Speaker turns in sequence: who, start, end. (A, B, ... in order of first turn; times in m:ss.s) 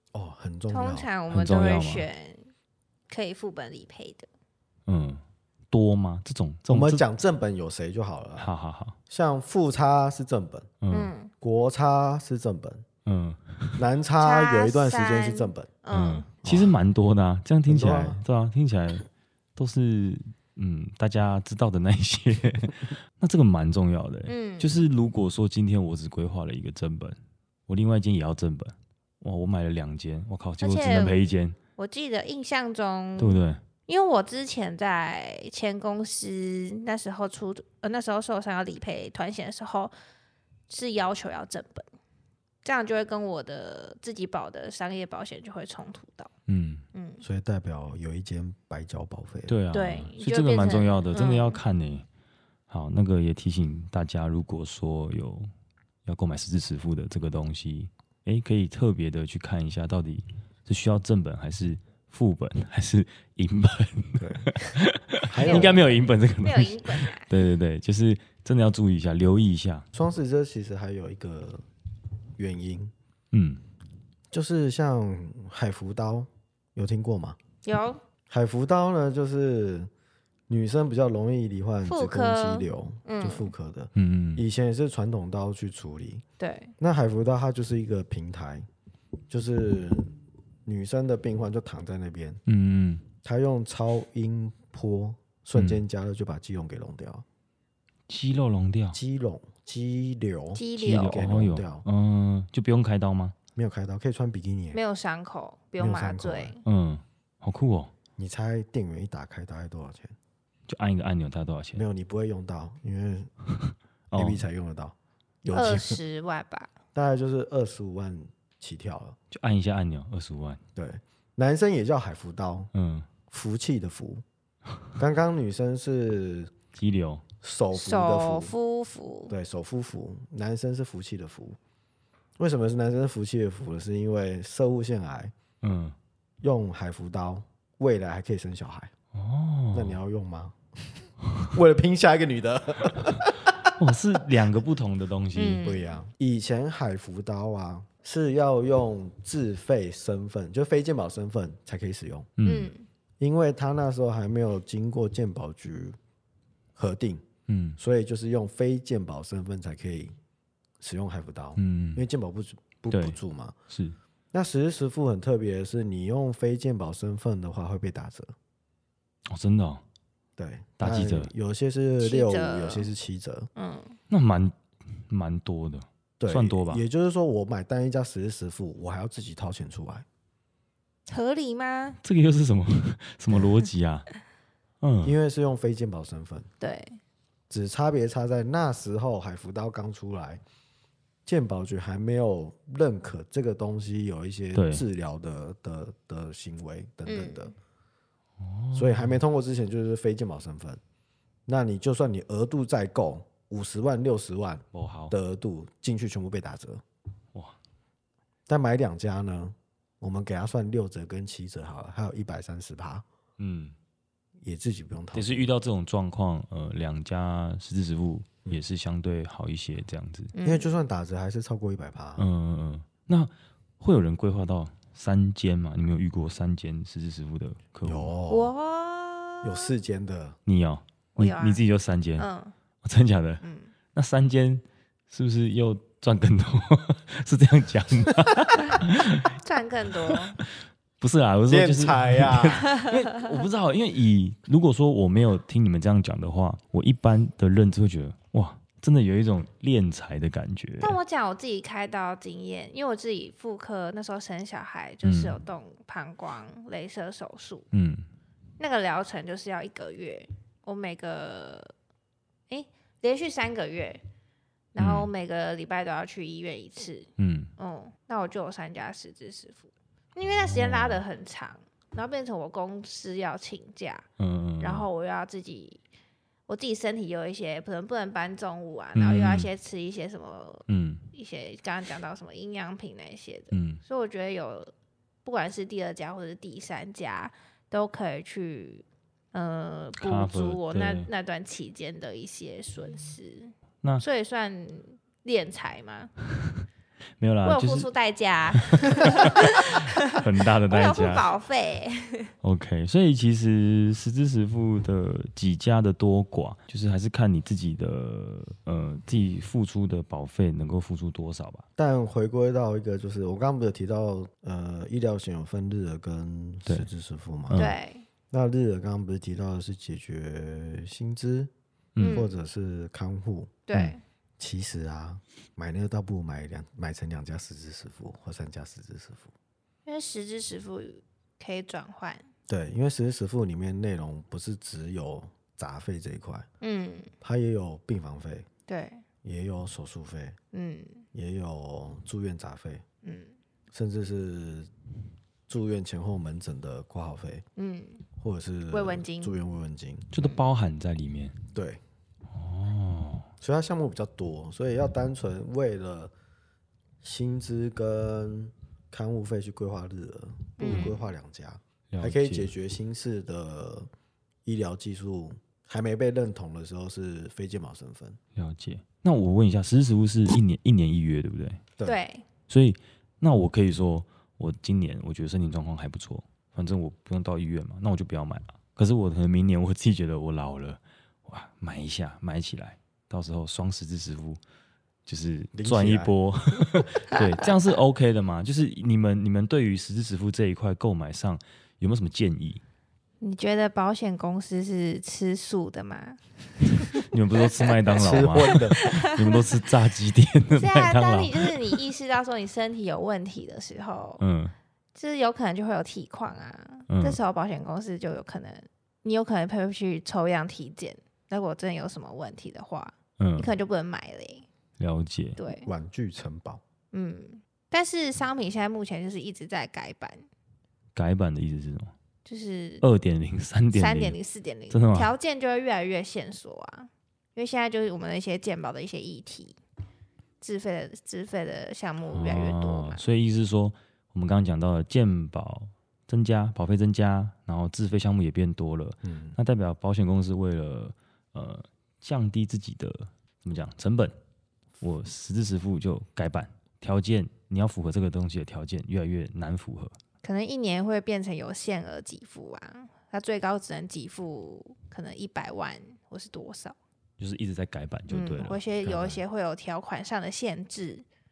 0:00.1-0:01.1 A
0:00.7-0:02.5 B
0:01.3-0:02.0 C
0:03.1-0:04.3 B
0:04.9-0:07.0 C
0:06.7-0:08.5 A
0:08.4-0:09.0 C
0:09.1-0:10.7 A
0:10.8-0:11.1 C
0:10.9-0:11.3 B
0:11.4-0:12.8 A
0:13.0-0:13.8 C
0:13.8-0:15.7 A
0:14.2-0:16.3 B
0:15.9-0:31.6 C
0:16.4-0:16.7 A
0:17.7-0:18.2 A
0:24.3-0:24.8 B
0:30.6-0:31.2 B
0:31.8-0:39.9 B
0:33.2-0:33.6 C
0:40.7-0:41.9 B
0:42.6-0:46.3 B
0:46.5-0:46.8 C
0:46.9-0:47.2 B
0:47.2-0:49.5 A
0:49.5-0:52.0 C
0:49.7-0:51.6 B
0:52.7-0:55.5 C
0:56.0-1:09.9 C
1:04.2-1:04.5 A
1:05.3-1:05.8 A
1:05.3-1:07.3 B
1:09.9-1:11.6 A
1:12.4-1:12.9 A
1:13.3-1:13.6 C
1:14.3-1:17.4 A
1:17.6-1:18.0 B
1:18.3-1:19.9 A
1:20.5-1:26.2 A
1:21.8-1:23.5 B
1:23.9-1:24.4 C
1:26.4-1:26.7 B
1:26.8-1:28.7 A
1:29.3-1:32.4 A
1:32.5-1:33.0 C
1:33.2-1:37.2 A
1:35.5-1:35.8 C
1:38.1-1:39.0 C
1:38.9-1:41.8 A
1:40.5-1:41.2 B
1:40.8-1:43.4 C
1:43.6-1:44.8 A
1:44.7-1:46.6 B
1:45.8-1:46.5 A
1:46.6-1:47.9 C
1:48.2-1:50.1 A
1:50.7-1:51.8 C
1:51.7-1:53.3 A
1:53.6-1:54.4 C
1:54.1-1:56.0 A
1:55.5-1:56.7 B
1:56.9-1:59.2 A
1:59.3-2:00.6 C
2:00.8-2:02.7 A
2:02.7-2:03.1 C
2:03.3-2:04.2 A
2:05.0-2:06.5 A
2:06.8-2:07.2 C
2:07.4-2:08.6 A
2:07.7-2:09.3 B
2:09.3-2:11.6 A
2:12.4-2:15.3 A
2:15.6-2:16.0 C
2:16.4-2:18.9 A
2:19.1-2:20.0 C
2:19.7-2:20.6 A
2:21.5-2:23.7 A
2:23.6-2:25.6 C
2:25.3-2:26.0 B
2:25.6-2:32.3 A
2:32.4-2:32.7 C
2:32.4-2:32.8 B
2:33.2-2:36.0 A
2:36.8-2:37.2 A
2:37.5-2:37.8 C
2:37.8-2:40.1 A
2:40.8-2:43.6 A
2:41.6-2:42.0 C
2:42.9-2:43.2 C
2:43.7-2:44.0 C
2:44.3-2:48.3 A
2:49.3-2:49.8 C
2:50.4-2:53.5 A
2:50.8-2:51.3 C
2:52.0-2:52.9 B
2:53.6-2:54.0 B
2:54.1-2:54.5 C
2:55.1-2:56.8 C
2:56.2-3:00.0 A
3:01.1-3:02.0 B
3:02.0-3:04.1 C
3:04.8-3:05.2 C
3:05.0-3:06.5 A
3:06.6-3:07.0 B
3:07.5-3:10.4 A
3:11.2-3:17.5 A
3:14.5-3:14.8 C
3:17.0-3:17.5 B
3:18.4-3:19.2 C
3:18.7-3:20.8 A
3:21.5-3:26.8 A
3:24.7-3:25.1 C
3:28.5-3:33.0 A
3:33.4-3:33.7 C
3:34.4-3:35.5 A
3:35.1-3:40.3 C
3:40.3-3:40.7 B
3:40.4-3:42.3 A
3:42.2-3:48.1 C
3:47.8-3:48.5 A
3:48.3-3:49.7 B
3:49.4-3:50.4 A
3:50.4-3:52.3 C
3:51.2-3:51.6 B
3:52.2-3:52.5 B
3:52.8-3:59.3 C
3:53.4-3:53.7 B
3:59.3-4:00.4 B
4:00.0-4:11.0 C
4:01.5-4:02.8 A
4:10.8-4:17.7 B
4:15.0-4:15.4 C
4:17.7-4:18.0 C
4:18.6-4:21.7 B
4:22.5-4:24.0 B
4:24.7-4:34.0 B
4:24.8-4:25.1 C
4:27.2-4:27.5 C
4:30.2-4:31.0 C
4:34.2-4:34.9 C
4:34.6-4:35.8 B
4:36.5-4:44.7 B
4:38.9-4:39.5 C
4:40.7-4:41.0 C
4:43.5-4:43.8 C
4:45.2-4:56.1 B
4:50.0-4:51.1 C
4:57.2-4:57.9 C
4:57.4-5:02.3 B
4:58.5-5:01.3 C
5:02.4-5:11.6 C
5:11.8-5:17.6 A
5:17.5-5:17.8 C
5:17.5-5:18.0 B
5:18.3-5:21.5 A
5:21.9-5:22.2 C
5:22.0-5:22.4 B
5:22.1-5:23.6 A
5:23.7-5:24.0 B
5:24.4-5:29.3 A
5:29.8-5:32.2 B
5:32.5-5:36.5 A
5:36.6-5:37.1 B
5:37.2-5:38.5 A
5:38.7-5:39.0 B
5:39.2-5:40.4 A
5:40.5-5:41.0 B
5:41.1-5:42.8 A
5:43.0-5:43.3 B
5:43.7-5:44.7 A
5:45.5-5:47.4 A
5:47.6-5:48.0 B
5:48.2-5:50.1 A
5:48.7-5:49.3 B
5:50.1-5:51.4 C
5:50.2-5:50.4 B
5:51.5-5:51.8 A
5:52.3-5:53.3 C
5:53.4-5:56.1 A
5:57.0-6:03.9 A
6:00.6-6:01.1 B
6:01.9-6:02.5 C
6:04.4-6:08.2 A
6:08.4-6:11.6 C
6:11.8-6:12.2 B
6:12.5-6:24.4 C
6:25.0-6:32.6 C
6:25.5-6:26.8 A
6:33.2-6:37.0 B
6:37.0-6:41.8 C
6:37.7-6:39.5 B
6:38.0-6:38.8 A
6:40.5-6:44.2 B
6:44.2-6:44.5 C
6:44.9-6:54.4 B
6:46.9-6:47.2 C
6:53.2-6:53.5 C
6:54.8-6:55.4 C
6:55.4-6:55.7 B
6:55.6-6:56.6 A
6:56.9-7:00.3 B
7:00.9-7:01.9 C
7:02.2-7:02.8 B
7:02.8-7:04.2 C
7:03.7-7:09.6 B
7:04.7-7:05.1 C
7:10.4-7:13.0 B
7:12.1-7:24.2 C
7:19.0-7:19.4 A
7:24.8-7:30.0 C
7:30.2-7:36.8 B
7:37.2-7:39.2 C
7:38.1-7:41.0 B